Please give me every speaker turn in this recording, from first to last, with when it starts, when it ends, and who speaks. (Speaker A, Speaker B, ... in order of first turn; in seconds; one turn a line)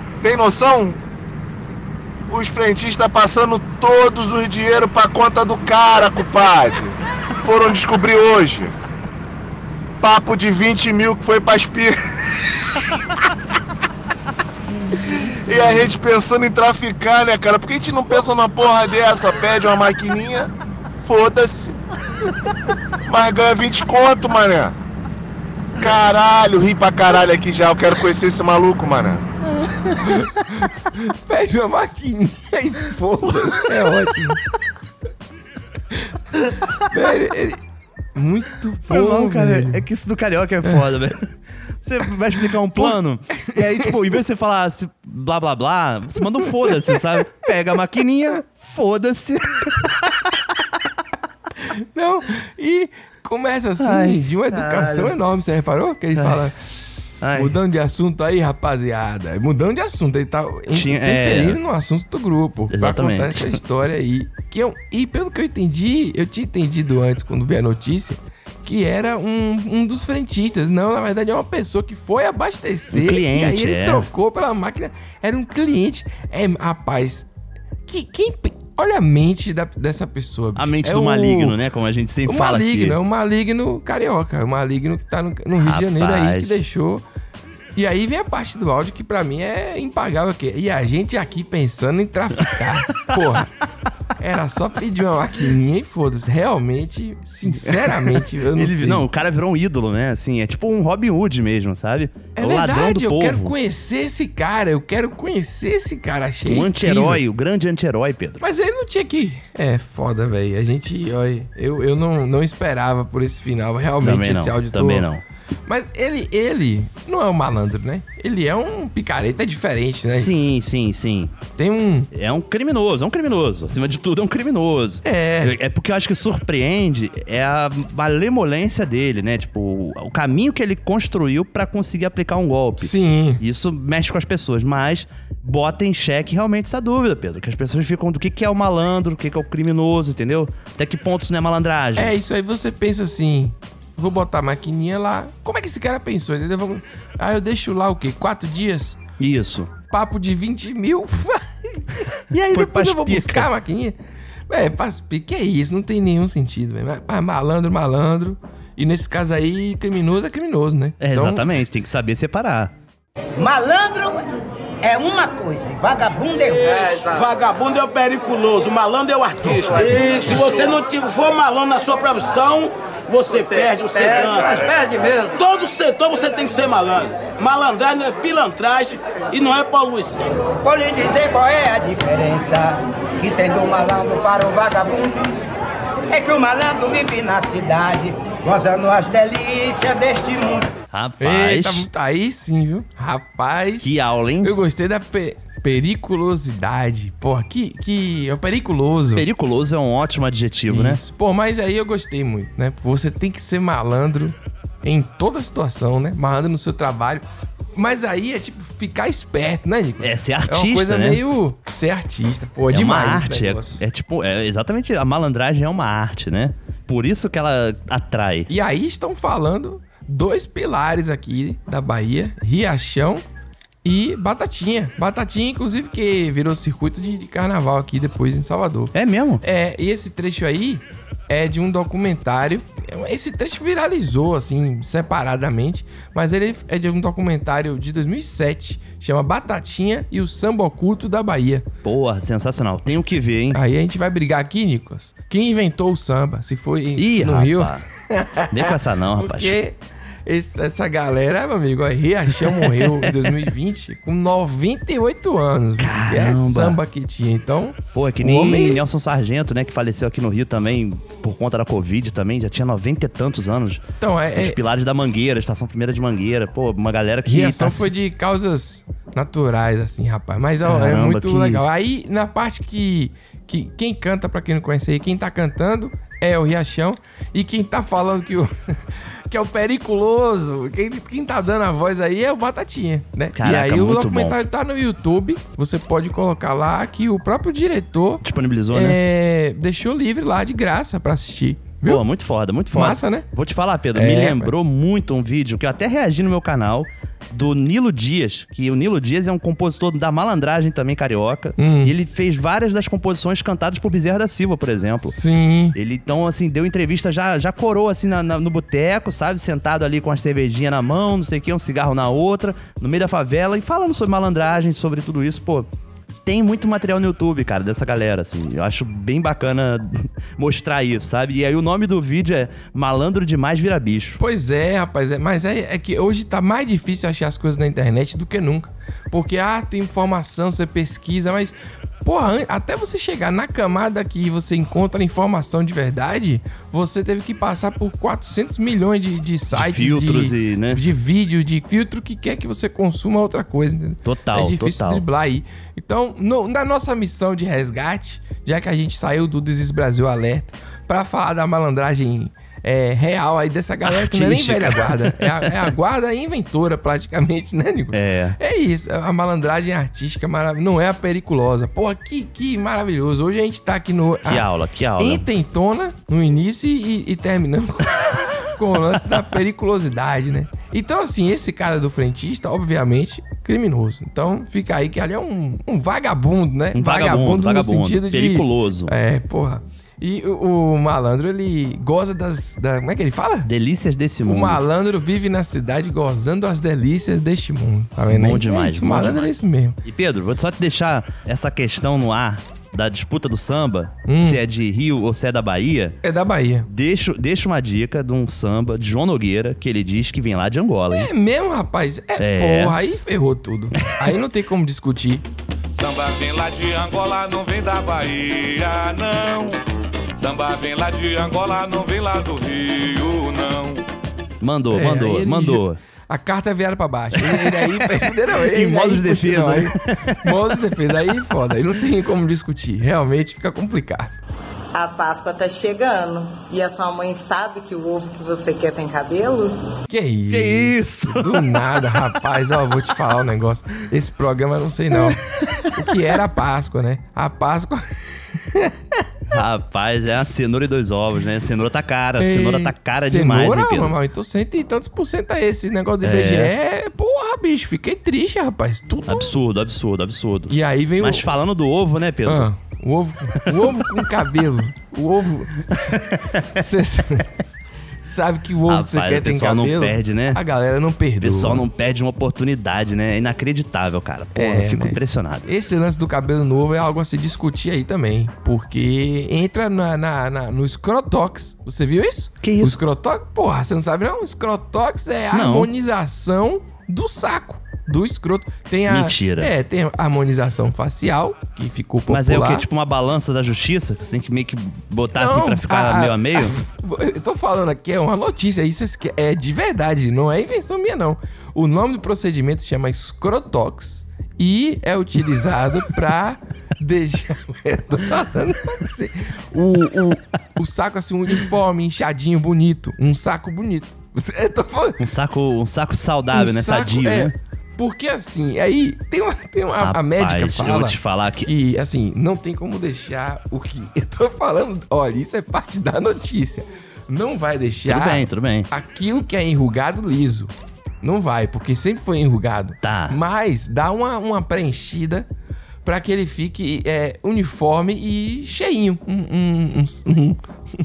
Speaker A: 0.2-1.0
Speaker A: 2.3-8.7
Speaker A: 10.0-12.0
Speaker A: 15.2-20.5
Speaker A: 21.0-21.8
Speaker A: 23.1-24.7
Speaker A: 25.8-29.2
Speaker B: 30.0-34.4
Speaker B: 36.8-37.6
Speaker B: 38.1-39.8
Speaker C: 38.9-41.3
Speaker C: 41.8-49.9
Speaker B: 42.7-44.0
Speaker B: 46.6-47.0
Speaker B: 51.7-56.6
Speaker C: 53.8-55.1
Speaker C: 57.2-57.5
Speaker B: 57.3-77.3
Speaker C: 60.7-61.6
Speaker C: 62.7-63.6
Speaker C: 72.9-74.1
Speaker B: 77.8-81.6
Speaker C: 80.5-83.0
Speaker B: 82.2-87.0
Speaker C: 85.6-86.6
Speaker B: 87.7-93.5
Speaker B: 94.2-99.0
Speaker C: 97.5-103.5
Speaker B: 102.3-107.2
Speaker C: 106.5-108.4
Speaker B: 108.4-115.1
Speaker C: 114.0-115.2
Speaker B: 115.7-120.4
Speaker C: 120.1-121.3
Speaker B: 121.6-122.1
Speaker C: 122.1-142.1
Speaker B: 125.0-125.6
Speaker B: 132.8-133.4
Speaker B: 141.9-149.0
Speaker C: 149.2-149.7
Speaker B: 149.9-154.0
Speaker C: 152.3-153.5
Speaker B: 154.5-161.5
Speaker C: 161.0-162.7
Speaker D: 163.4-164.2
Speaker D: 164.8-167.0
Speaker E: 167.0-174.7
Speaker E: 175.3-180.2
Speaker D: 180.6-185.3
Speaker D: 186.1-190.7
Speaker C: 190.9-191.9
Speaker B: 191.2-199.2
Speaker C: 193.8-194.5
Speaker C: 199.1-201.0
Speaker B: 200.7-207.2
Speaker B: 207.7-213.8
Speaker C: 210.0-211.2
Speaker C: 212.7-218.5
Speaker B: 218.5-223.2
Speaker B: 223.8-241.7
Speaker C: 228.9-229.4
Speaker C: 241.8-243.6
Speaker B: 243.5-258.8
Speaker C: 247.0-247.8
Speaker C: 248.5-249.6
Speaker C: 252.4-253.3
Speaker C: 255.8-256.8
Speaker C: 257.9-263.8
Speaker B: 264.0-264.6
Speaker C: 264.4-267.9
Speaker B: 267.2-278.8
Speaker C: 270.6-271.6
Speaker B: 279.3-292.0
Speaker C: 283.4-284.4
Speaker C: 288.2-289.0
Speaker C: 291.8-305.1
Speaker B: 292.7-293.3
Speaker B: 293.9-294.5
Speaker B: 301.6-301.9
Speaker B: 305.0-305.8
Speaker C: 305.7-315.7
Speaker C: 316.2-324.2
Speaker B: 324.2-364.4
Speaker C: 339.5-340.8
Speaker C: 344.0-345.0
Speaker C: 353.9-355.7
Speaker C: 357.9-358.4
Speaker C: 364.3-365.2
Speaker B: 365.0-383.5
Speaker C: 376.7-378.9
Speaker C: 383.4-384.6
Speaker B: 384.2-389.8
Speaker C: 388.1-389.3
Speaker C: 389.8-395.9
Speaker B: 394.1-394.4
Speaker B: 396.0-396.7
Speaker C: 396.7-401.1
Speaker B: 400.9-405.2
Speaker C: 402.2-402.8
Speaker C: 403.8-404.1
Speaker F: 405.7-409.6
Speaker F: 410.1-413.8
Speaker C: 414.4-415.8
Speaker B: 414.7-424.1
Speaker C: 417.2-420.6
Speaker G: 424.7-429.7
Speaker B: 429.9-438.8
Speaker C: 430.3-432.1
Speaker C: 435.4-435.7
Speaker C: 439.3-443.9
Speaker B: 442.2-449.4
Speaker C: 446.0-446.7
Speaker C: 449.1-452.5
Speaker B: 450.5-451.3
Speaker B: 452.2-457.3
Speaker C: 453.4-454.0
Speaker C: 455.8-456.6
Speaker B: 458.0-461.7
Speaker C: 458.7-460.4
Speaker C: 461.2-465.5
Speaker B: 464.3-482.7
Speaker C: 472.4-472.8
Speaker C: 475.3-475.7
Speaker C: 478.9-479.5
Speaker C: 482.1-486.6
Speaker B: 485.1-505.0
Speaker C: 505.0-507.3
Speaker B: 506.3-525.3
Speaker C: 509.8-511.5
Speaker C: 517.9-518.7
Speaker C: 522.8-523.2
Speaker B: 525.8-530.4